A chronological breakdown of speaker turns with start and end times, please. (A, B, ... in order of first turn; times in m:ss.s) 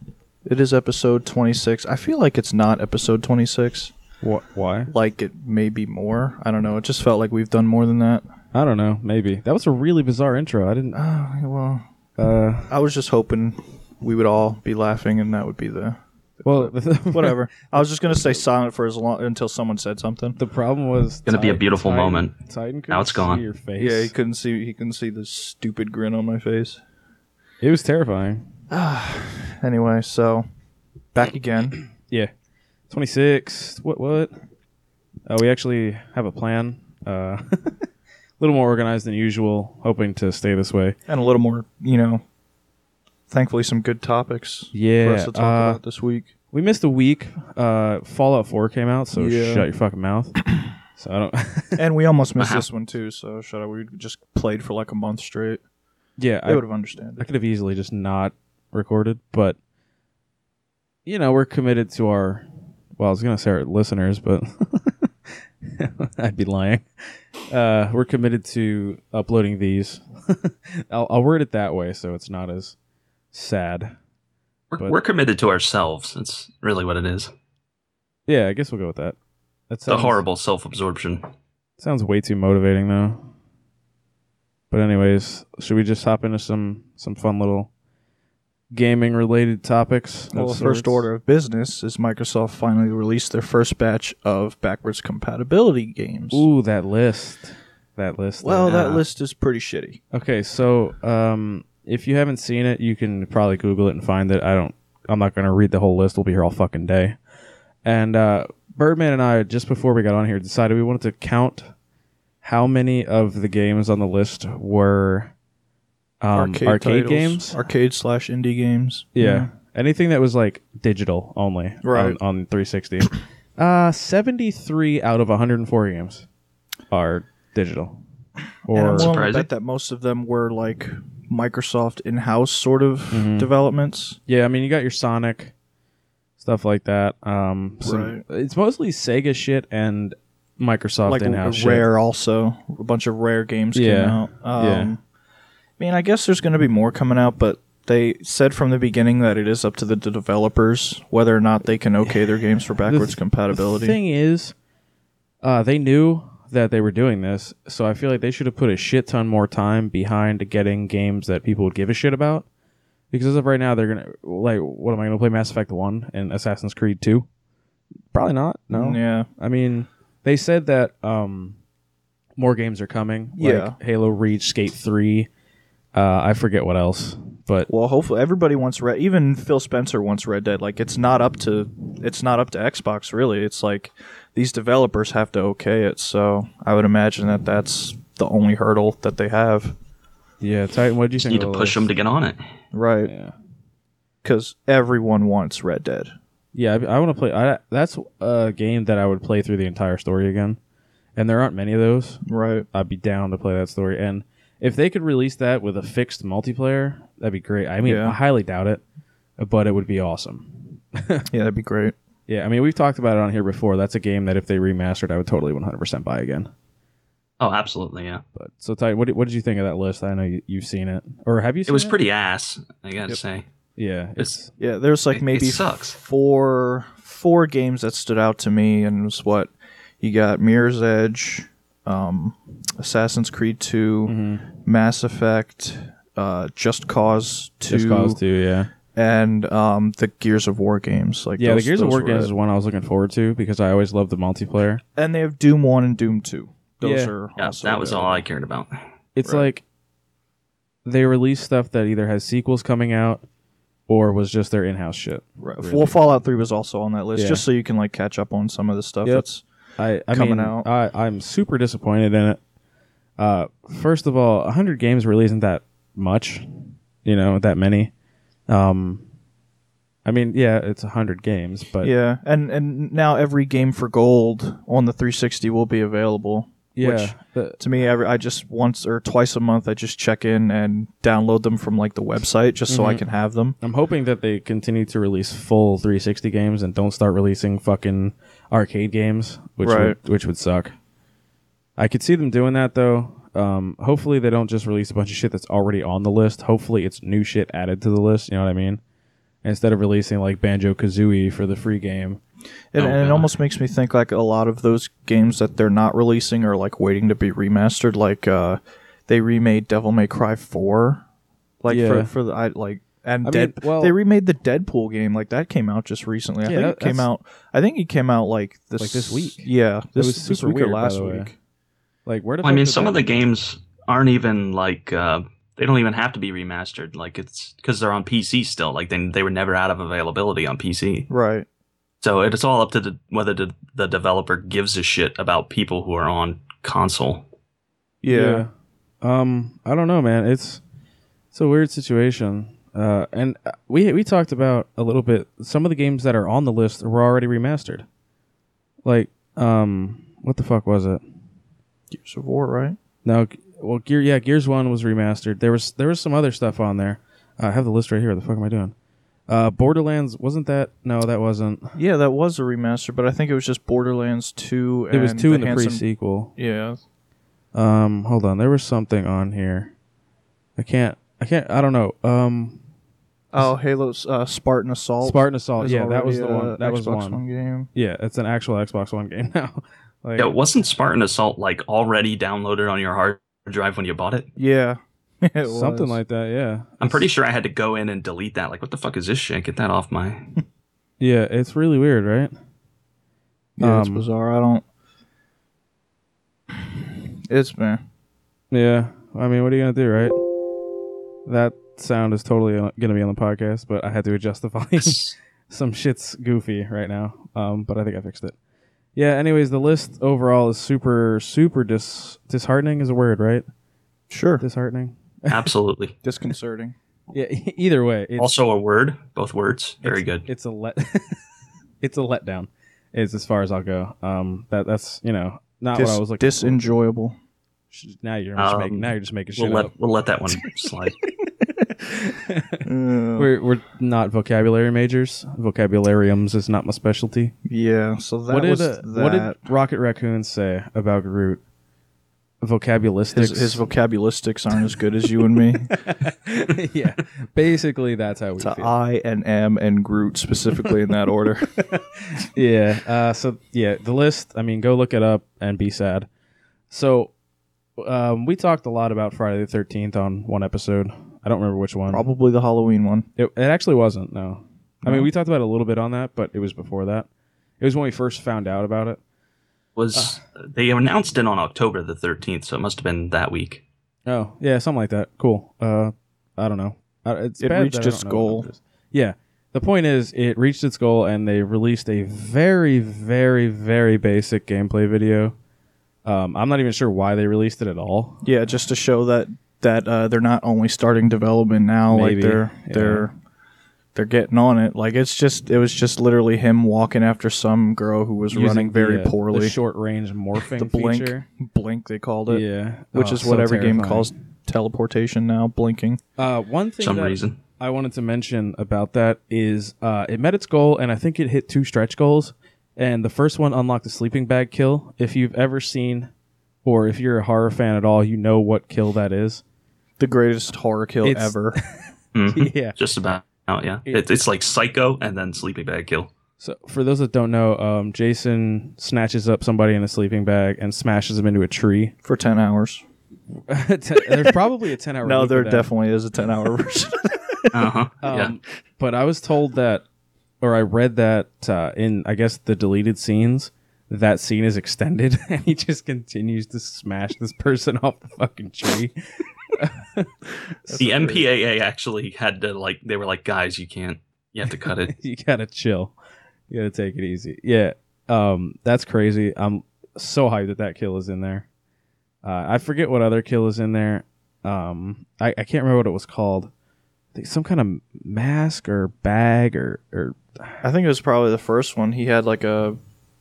0:00.4-0:03.9 A
0:04.2-0:04.9 B
0:04.9-0:08.2 A
0:08.5-0:11.0 B
0:11.0-0:11.8 A
0:12.2-0:12.7 B
0:12.7-0:20.4 A
0:16.4-0:17.4 B
0:20.4-0:24.1 B
0:21.3-0:22.3 C
0:22.9-0:23.4 C
0:23.8-0:26.8 A
0:27.6-0:28.5 B
0:28.7-0:30.5 A
0:31.1-0:31.8 A
0:32.9-0:34.3 B
0:35.3-0:37.8 B
0:38.4-0:41.0 B
0:41.1-0:42.2 A
0:43.3-0:46.3 A
0:44.7-0:45.8 B
0:46.5-0:51.8 B
0:49.2-0:49.7 A
0:51.8-0:55.6 A
0:52.4-0:52.6 C
0:56.2-0:56.6 B
0:56.5-0:57.3 A
0:57.2-0:59.6 B
1:01.1-1:02.5 B
1:03.0-1:05.1 B
1:05.6-1:06.9 B
1:07.5-1:12.8 B
1:13.3-1:13.9 B
1:14.7-1:17.3 C
1:18.3-1:19.2 B
1:19.7-1:20.2 B
1:19.9-1:21.3 C
1:21.8-1:23.3 B
1:24.7-1:27.7 B
1:28.7-1:31.1 B
1:30.3-1:36.5 A
1:36.3-1:39.0 B
1:38.4-1:40.0 A
1:38.7-1:39.0 C
1:40.1-1:47.2 B
1:47.8-1:51.7 B
1:52.4-1:55.3 B
1:56.2-1:57.6 B
1:56.4-1:59.5 A
1:59.2-2:06.3 B
2:01.8-2:02.2 A
2:06.9-2:08.0 B
2:08.7-2:09.2 B
2:08.7-2:14.2 A
2:09.0-2:09.5 C
2:13.1-2:13.5 B
2:14.3-2:15.5 B
2:16.4-2:21.9 B
2:17.8-2:18.2 A
2:21.1-2:25.0 A
2:23.8-2:24.9 B
2:25.8-2:34.0 A
2:32.8-2:34.6 B
2:35.4-2:42.5 B
2:43.1-2:47.3 B
2:48.1-2:51.6 B
2:48.7-2:49.3 A
2:52.4-2:55.3 B
2:53.4-2:53.8 A
2:56.0-2:57.7 B
2:57.7-3:09.8 A
3:10.4-3:11.9 B
3:11.2-3:12.4 C
3:12.7-3:13.1 A
3:13.0-3:13.3 B
3:14.2-3:16.1 A
3:16.6-3:20.6 B
3:21.2-3:28.8 B
3:22.3-3:22.7 A
3:27.8-3:28.2 A
3:29.4-3:31.3 B
3:31.3-3:32.0 A
3:32.3-3:36.5 B
3:37.4-3:38.2 C
3:38.4-3:42.0 B
3:41.7-3:43.5 C
3:43.8-3:44.5 B
3:44.6-3:58.2 A
3:45.1-3:46.0 C
3:54.1-3:54.5 B
3:57.7-3:58.7 B
3:58.9-4:02.3 A
4:01.4-4:04.8 B
4:05.0-4:08.2 A
4:06.8-4:07.1 B
4:07.4-4:08.8 C
4:09.2-4:09.6 B
4:09.2-4:09.5 A
4:10.8-4:13.2 B
4:13.9-4:16.0 B
4:15.4-4:19.4 A
4:17.2-4:17.4 B
4:19.8-4:22.4 B
4:20.1-4:20.7 A
4:23.2-4:27.9 B
4:28.5-4:29.0 B
4:30.0-4:31.9 B
4:31.8-4:43.6 A
4:36.8-4:37.6 B
4:42.7-4:43.0 B
4:43.6-4:50.7 B
4:49.6-4:50.0 A
4:51.8-4:58.8 B
4:59.4-5:02.2 B
5:02.7-5:11.0 A
5:02.8-5:03.3 C
5:11.6-5:21.4 A
5:11.7-5:12.1 B
5:13.2-5:14.0 B
5:16.4-5:17.1 B
5:18.8-5:21.3 B
5:22.1-5:23.3 B
5:22.4-5:31.1 C
5:31.1-5:31.5 A
5:32.0-5:37.2 C
5:38.0-5:38.4 A
5:38.1-5:38.5 B
5:39.0-5:40.6 B
5:41.3-5:47.9 B
5:48.8-5:51.0 B
5:51.9-5:52.8 A
5:53.0-5:58.7 B
5:59.3-6:01.8 B
6:01.8-6:05.8 A
6:04.9-6:06.4 B
6:06.4-6:06.8 A
6:07.5-6:09.7 B
6:10.6-6:12.6 B
6:13.3-6:17.7 A
6:15.0-6:17.2 B
6:17.8-6:20.3 B
6:20.2-6:24.3 C
6:24.4-6:26.0 A
6:25.4-6:27.1 B
6:26.8-6:30.3 C
6:31.0-6:32.3 B
6:33.6-6:34.6 A
6:33.6-6:34.1 B
6:36.8-6:37.8 A
6:38.5-6:40.2 B
6:41.3-6:48.4 B
6:44.8-6:45.2 C
6:49.0-6:53.4 B
6:54.1-6:54.4 A
6:54.4-6:55.5 B
6:55.3-6:55.9 C
6:56.0-6:56.8 A
6:57.1-6:58.4 B
6:58.2-7:00.3 C
6:59.8-7:01.2 B
7:01.8-7:06.6 B
7:05.8-7:07.2 A
7:07.7-7:09.7 B
7:08.4-7:11.0 C
7:11.6-7:12.6 B
7:12.6-7:13.3 A
7:13.2-7:17.3 B
7:17.5-7:19.4 A
7:18.3-7:21.4 B
7:22.4-7:23.6 B
7:23.1-7:25.8 A
7:25.4-7:28.7 B
7:28.4-7:31.5 A
7:31.7-7:36.1 B
7:36.7-7:37.1 B
7:37.8-7:42.1 B
7:41.9-7:43.1 A
7:43.2-7:47.1 B
7:44.8-7:45.1 A
7:47.6-7:49.0 B
7:49.8-7:53.6 C
7:54.1-8:05.4 B
7:57.4-7:58.5 A
8:06.0-8:08.2 B
8:08.2-8:13.1 A
8:11.9-8:13.1 B
8:14.0-8:19.6 A
8:18.3-8:21.3 B
8:20.4-8:26.0 A
8:22.3-8:24.1 B
8:26.2-8:36.1 B
8:26.8-8:27.4 C
8:36.6-8:39.4 B
8:40.0-8:41.6 A
8:41.0-8:42.8 B
8:42.2-8:46.1 C
8:43.9-8:44.2 B
8:46.4-8:52.0 B
8:52.0-8:52.8 A
8:53.5-8:55.7 B
8:54.1-8:54.4 A
8:55.0-8:57.7 A
8:57.5-8:58.3 C
8:58.0-8:59.8 B
9:00.4-9:09.0 B
9:09.5-9:10.1 B
9:10.7-9:11.3 A
9:10.8-9:14.9 C
9:14.6-9:15.9 B
9:16.5-9:21.5 B
9:22.2-9:26.5 B
9:27.2-9:30.6 B
9:30.6-9:32.8 A